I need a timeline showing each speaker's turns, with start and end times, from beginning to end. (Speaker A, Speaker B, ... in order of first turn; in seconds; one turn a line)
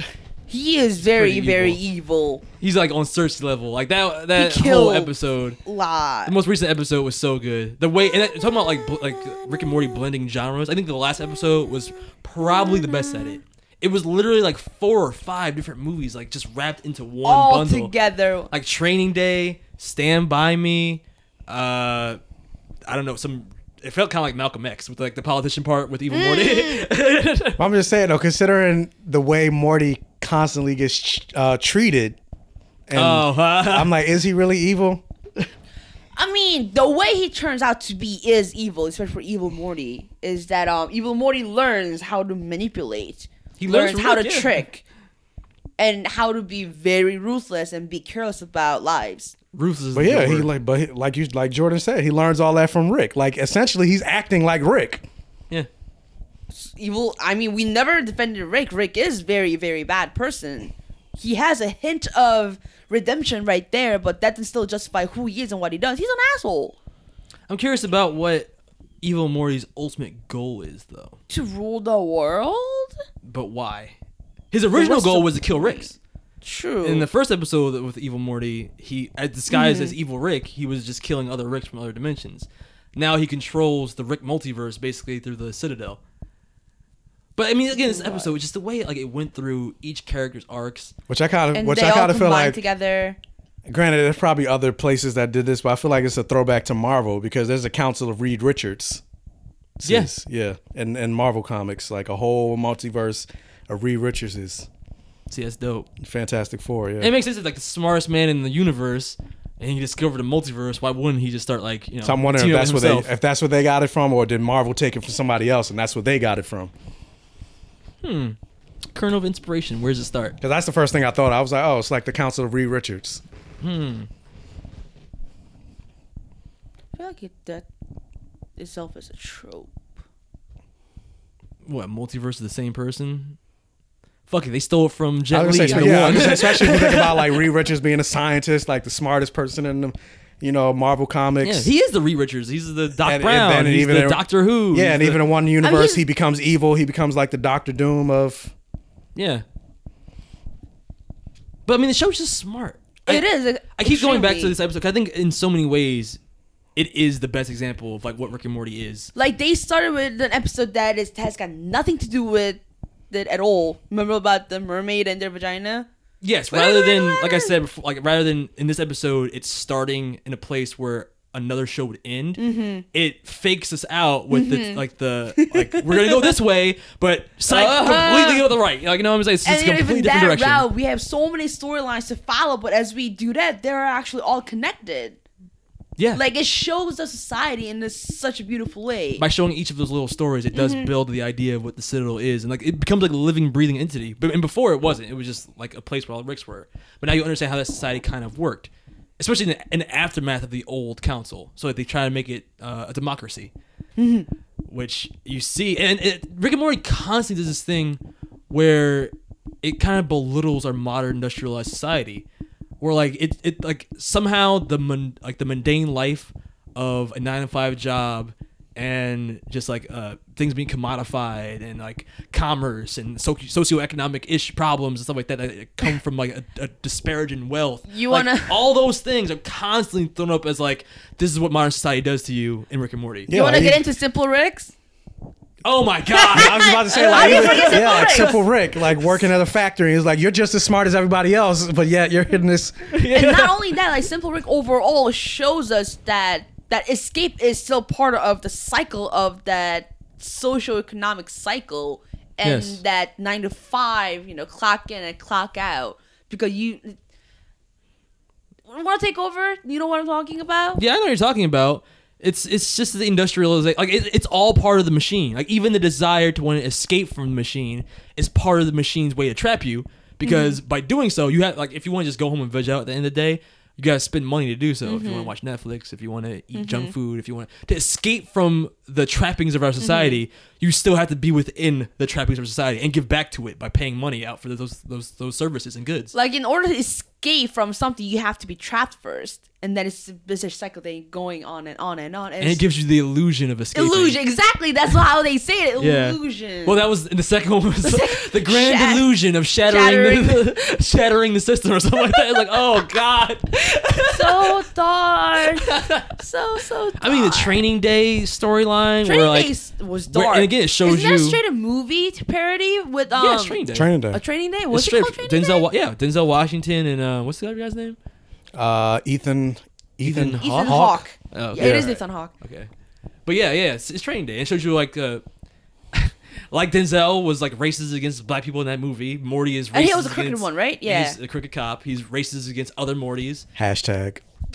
Speaker A: 0.5-2.4
Speaker B: 1.0-1.8
Speaker B: 2.6-5.6
Speaker A: 4.3-5.1
Speaker A: 5.6-6.3
Speaker B: 6.2-17.9
Speaker A: 12.4-13.4
Speaker A: 17.2-18.5
Speaker B: 18.5-22.2
Speaker B: 22.9-27.6
Speaker A: 26.1-26.9
Speaker C: 27.6-32.2
Speaker C: 32.9-35.0
Speaker B: 32.9-33.9
Speaker A: 36.1-44.8
Speaker B: 43.6-44.6
Speaker A: 45.8-49.3
Speaker B: 49.5-50.5
Speaker C: 49.9-55.0
Speaker A: 56.5-66.8
Speaker B: 67.5-68.5
Speaker B: 69.0-71.2
Speaker A: 71.3-72.9
Speaker B: 73.2-73.9
Speaker B: 74.5-76.0
Speaker A: 74.7-75.9
Speaker A: 76.4-77.1
Speaker B: 76.8-86.0
Speaker A: 79.5-79.9
Speaker B: 87.3-90.9
Speaker A: 87.7-88.3
Speaker C: 91.1-92.6
Speaker A: 91.5-93.2
Speaker C: 93.7-99.0
Speaker C: 99.8-104.7
Speaker B: 99.8-100.1
Speaker B: 105.3-105.9
Speaker C: 106.0-107.1
Speaker B: 107.0-113.1
Speaker C: 112.0-116.7
Speaker B: 118.0-118.4
Speaker B: 118.9-120.3
Speaker C: 120.4-123.2
Speaker B: 123.6-124.1
Speaker A: 127.0-127.7
Speaker A: 128.6-129.7
Speaker B: 131.6-133.4
Speaker B: 134.3-137.4
Speaker C: 135.3-141.7
Speaker B: 141.4-145.2
Speaker C: 143.0-148.5
Speaker A: 145.6-146.0
Speaker B: 149.2-149.4
Speaker B: 151.7-156.2
Speaker A: 153.1-154.5
Speaker B: 156.8-159.1
Speaker A: 159.1-165.9
Speaker B: 166.2-172.4
Speaker A: 166.5-167.5
Speaker A: 172.4-172.8
Speaker B: 172.9-180.7
Speaker A: 174.3-174.8
Speaker A: 175.4-176.3
Speaker A: 177.5-178.4
Speaker A: 179.4-185.2
Speaker B: 186.0-186.2
Speaker A: 186.1-189.2
Speaker B: 189.2-203.5
Speaker A: 190.5-190.9
Speaker A: 204.0-204.3
Speaker B: 204.7-212.2
Speaker B: 212.8-233.3
Speaker A: 227.9-228.6
Speaker C: 233.3-233.8
Speaker A: 233.3-234.7
Speaker B: 235.6-238.4
Speaker A: 236.1-238.4
Speaker C: 236.3-242.9
Speaker B: 242.9-243.7
Speaker A: 243.1-257.0
Speaker B: 252.4-252.8
Speaker A: 258.7-260.8
Speaker B: 260.8-286.1
Speaker A: 270.2-270.6
Speaker A: 274.8-275.3
Speaker A: 276.5-276.9
Speaker A: 279.8-280.2
Speaker A: 286.1-292.6
Speaker B: 292.4-294.2
Speaker A: 293.7-296.8
Speaker B: 295.8-304.6
Speaker A: 297.8-299.1
Speaker A: 299.7-300.4
Speaker A: 302.1-302.8
Speaker A: 304.1-307.6
Speaker B: 305.6-306.1
Speaker B: 307.0-309.5
Speaker A: 309.0-315.7
Speaker B: 310.1-311.4
Speaker B: 313.1-313.9
Speaker C: 313.7-314.2
Speaker B: 314.7-318.0
Speaker C: 318.5-321.0
Speaker B: 320.0-322.7
Speaker A: 320.4-322.3
Speaker C: 321.6-321.9
Speaker B: 323.2-325.2
Speaker B: 325.9-333.4
Speaker A: 329.7-331.2
Speaker C: 333.6-334.2